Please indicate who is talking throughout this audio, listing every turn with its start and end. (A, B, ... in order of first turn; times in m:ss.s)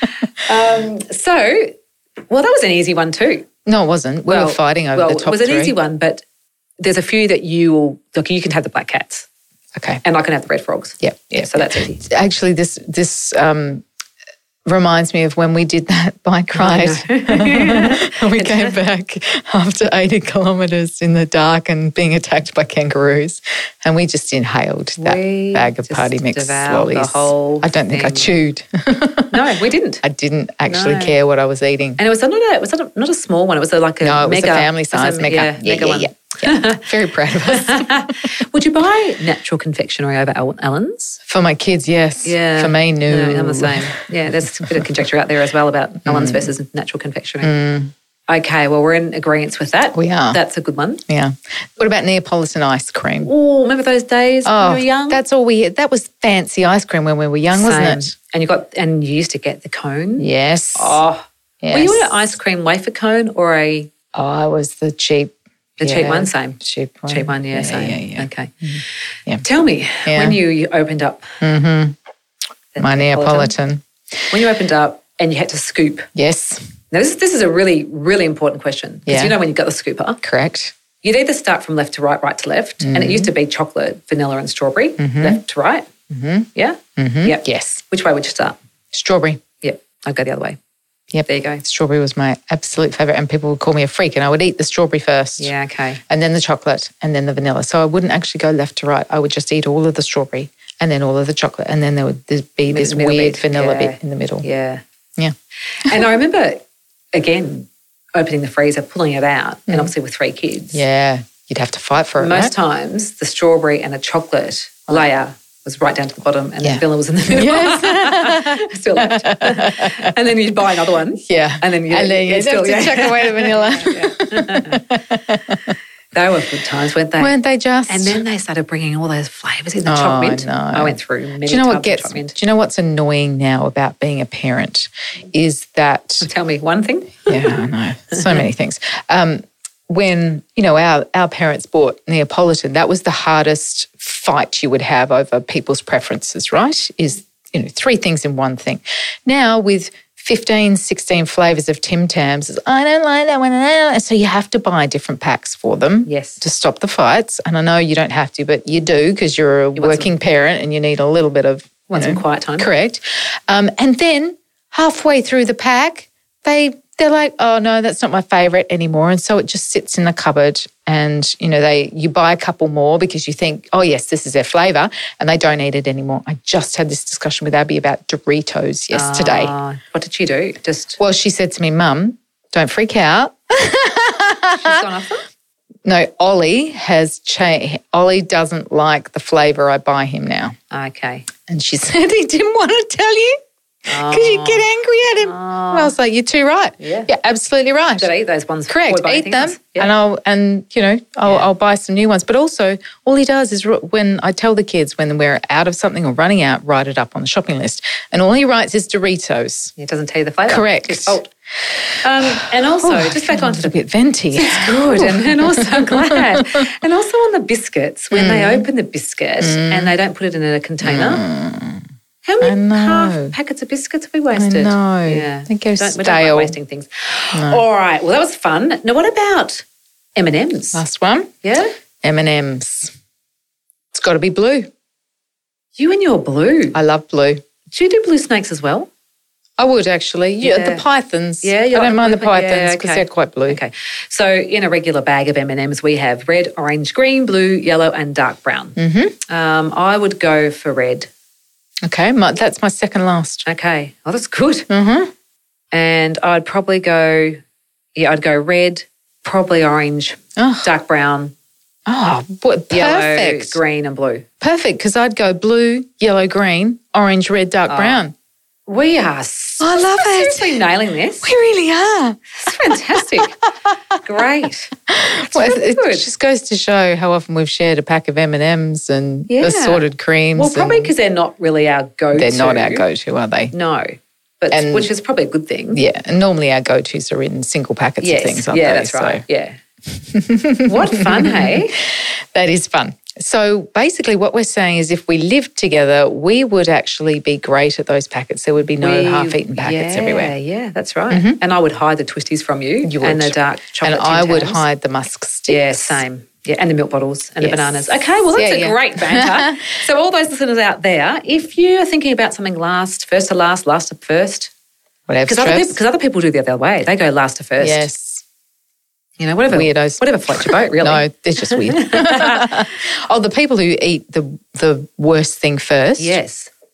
0:00.4-0:01.8 A
0:02.3-0:03.5 A
0:03.7-0:05.8 B
0:04.3-0:06.2 A
0:06.8-0:09.3 A
0:09.8-0:10.0 B
0:10.0-0:12.0 A
0:11.0-0:13.8 B
0:14.7-0:29.4 B
0:16.6-0:18.8 A
0:25.0-0:28.3 A
0:29.3-0:30.0 A
0:30.0-0:32.0 B
0:30.7-0:31.2 A
0:32.0-0:36.9 A
0:34.0-0:38.1 B
0:37.5-0:41.2 A
0:41.3-0:44.0 B
0:42.2-0:47.6 A
0:46.1-0:46.5 B
0:47.4-0:47.9 B
0:48.3-0:51.0 A
0:49.9-0:50.4 B
0:51.1-0:53.3 B
0:53.2-0:55.2 A
0:54.4-0:58.2 B
0:57.5-1:03.9 A
1:00.2-1:01.0 B
1:01.6-1:02.3 B
1:04.1-1:09.4 B
1:05.8-1:08.5 A
1:09.4-1:11.3 A
1:10.1-1:10.4 B
1:11.4-1:12.0 B
1:12.8-1:13.5 A
1:12.8-1:13.8 B
1:14.3-1:16.1 A
1:16.2-1:16.6 B
1:16.9-1:20.2 A
1:19.1-1:19.4 B
1:20.2-1:20.7 B
1:21.0-1:25.9 A
1:22.8-1:23.3 B
1:25.0-1:25.4 B
1:26.1-1:27.8 B
1:26.6-1:28.6 A
1:28.9-1:29.4 B
1:29.6-1:30.6 A
1:31.1-1:35.5 B
1:31.3-1:31.6 A
1:35.4-1:36.0 A
1:36.1-1:44.5 B
1:42.7-1:44.8 A
1:45.8-1:50.8 A
1:50.7-1:52.5 B
1:52.2-2:04.9 A
1:56.6-2:00.2 B
2:01.2-2:05.8 B
2:06.1-2:07.3 A
2:07.2-2:08.2 B
2:07.9-2:12.4 A
2:09.9-2:16.3 B
2:16.2-2:17.6 A
2:17.3-2:59.5 B
2:36.1-2:36.4 A
2:39.8-2:40.1 A
2:41.9-2:42.7 A
2:58.9-3:01.0 A
3:01.0-3:04.8 B
3:04.5-3:05.2 A
3:05.8-3:10.5 B
3:10.7-3:11.3 A
3:11.5-3:13.4 B
3:13.9-3:15.9 A
3:13.9-3:18.1 B
3:16.8-3:17.1 A
3:18.0-3:19.9 A
3:18.7-3:29.7 B
3:29.8-3:31.3 A
3:30.5-3:31.2 B
3:32.0-3:33.8 A
3:32.2-3:36.5 B
3:34.3-3:41.2 A
3:38.1-3:38.7 B
3:39.4-3:39.9 B
3:40.8-3:41.8 B
3:42.2-3:49.6 A
3:42.4-3:43.3 B
3:44.3-3:46.6 B
3:47.3-3:47.6 B
3:50.2-3:50.8 A
3:50.7-3:51.3 B
3:51.4-3:51.7 A
3:52.0-3:52.9 B
3:53.9-3:54.7 B
3:55.8-3:56.8 A
3:56.7-3:57.4 B
3:57.7-3:58.9 A
3:59.6-4:03.6 B
4:00.4-4:00.8 A
4:01.4-4:11.1 A
4:08.8-4:09.2 B
4:11.8-4:13.5 B
4:13.5-4:14.7 A
4:14.7-4:15.1 B
4:15.7-4:17.4 A
4:18.0-4:21.3 A
4:20.4-4:20.7 B
4:21.9-4:23.6 B
4:22.7-4:24.3 A
4:24.4-4:28.1 B
4:27.7-4:28.0 A
4:28.7-4:31.3 A
4:29.6-4:30.6 B
4:31.2-4:33.4 B
4:32.4-4:33.4 A
4:34.0-4:36.1 A
4:34.9-4:40.9 B
4:39.3-4:42.9 A
4:42.1-4:43.5 B
4:43.5-4:45.8 A
4:44.5-4:44.9 B
4:45.7-4:49.2 B
4:48.0-4:49.6 A
4:49.9-5:00.3 B
4:50.7-4:51.8 A
4:58.8-5:04.6 A
5:01.1-5:01.4 B
5:02.8-5:06.0 B
5:05.5-5:14.5 A
5:07.4-5:09.6 B
5:15.1-5:15.8 B
5:15.3-5:17.9 A
5:17.6-5:18.2 B
5:19.2-5:22.6 A
5:19.5-5:26.2 B
5:26.0-5:26.5 A